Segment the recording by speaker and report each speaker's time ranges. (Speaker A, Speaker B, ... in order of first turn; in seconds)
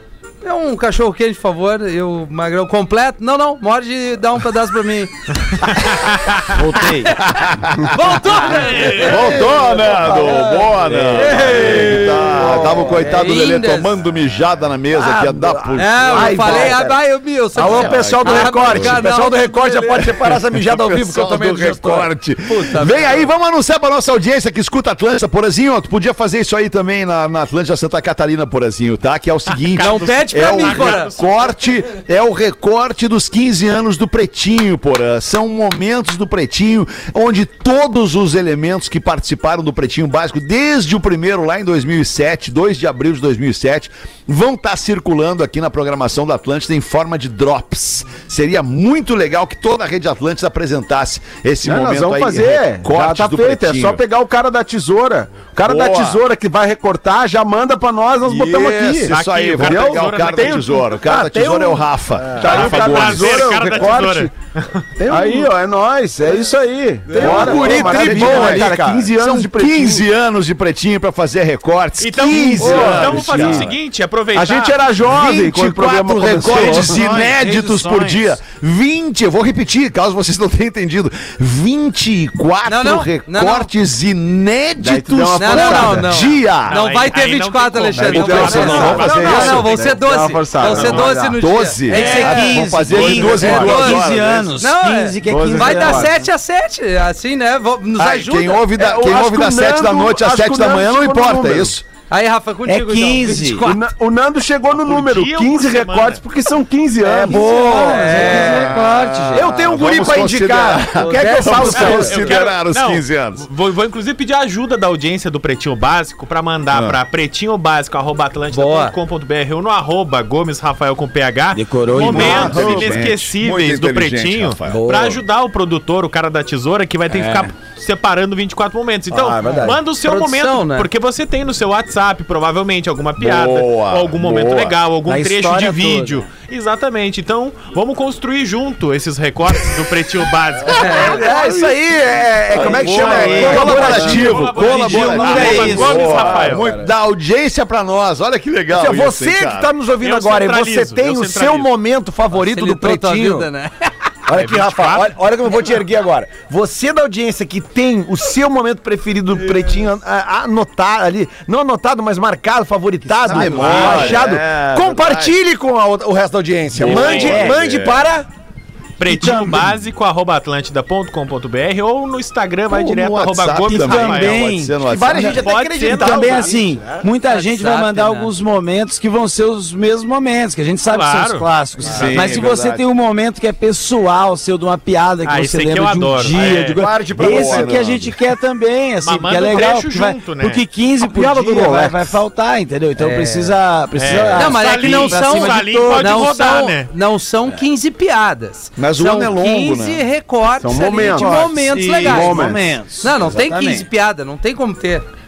Speaker A: 0.4-5.7, 6.8-7.2, 7.8-9.5, 11.0-13.9, 15.8-20.4, 22.5-23.2, 29.8-31.1, 82.7-83.7, 85.3-98.7, 102.1-103.8, 107.5-108.8, 111.0-112.3, 118.5-118.9, 129.9-130.9, 140.7-141.2, 152.3-153.9, 177.3-178.3, 193.0-193.6, 194.1-205.0
Speaker B: 5.8-6.3, 8.5-9.3, 29.6-31.5, 59.1-60.9, 62.4-65.3, 72.0-74.8, 86.6-89.8, 90.6-91.2, 91.9-92.3, 104.7-106.2, 111.7-141.3, 143.6-146.8, 150.0-151.7, 154.3-155.2, 163.5-164.2, 166.8-167.5, 169.0-174.5, 175.2-176.5, 180.8-182.4, 185.2-186.8, 189.0-190.6, 194.0-196.9
Speaker C: 6.5-7.2, 76.4-78.3, 91.9-96.1, 102.6-103.7, 107.0-109.5, 111.1-112.1, 121.5-123.0, 127.1-127.5, 135.1-136.1, 142.6-146.2, 163.2-164.2, 167.0-167.6, 173.7-196.2, 201.1-203.8
Speaker D: 7.2-8.0, 8.9-16.8, 17.6-19.1, 20.5-54.0, 55.6-56.2, 58.2-63.5, 67.1-73.8, 75.1-86.8, 88.1-89.7, 91.4-94.5, 98.0-101.8, 108.3-113.4, 116.7-117.0, 121.9-124.9, 133.2-134.8, 142.5-149.7, 163.2-165.3, 166.7-168.1, 172.7-175.5, 181.8-182.8, 186.3-188.2, 198.8-200.0
Speaker E: 9.1-13.2, 14.9-17.0, 17.5-22.1, 67.1-69.0, 88.6-88.9, 109.3-111.9, 124.7-125.2, 129.1-129.8, 140.7-144.3, 145.3-146.9, 148.7-153.5, 154.3-168.3, 174.8-177.1, 186.8-187.7
Speaker F: 51.6-64.3, 65.0-70.0, 72.6-73.7, 74.3-77.0, 84.8-86.1, 88.0-91.4, 92.9-93.8, 95.2-96.2, 98.7-101.7, 103.4-108.2, 129.4-129.7, 141.2-141.7, 142.6-144.1, 191.0-192.2, 200.6-201.4, 202.0-202.6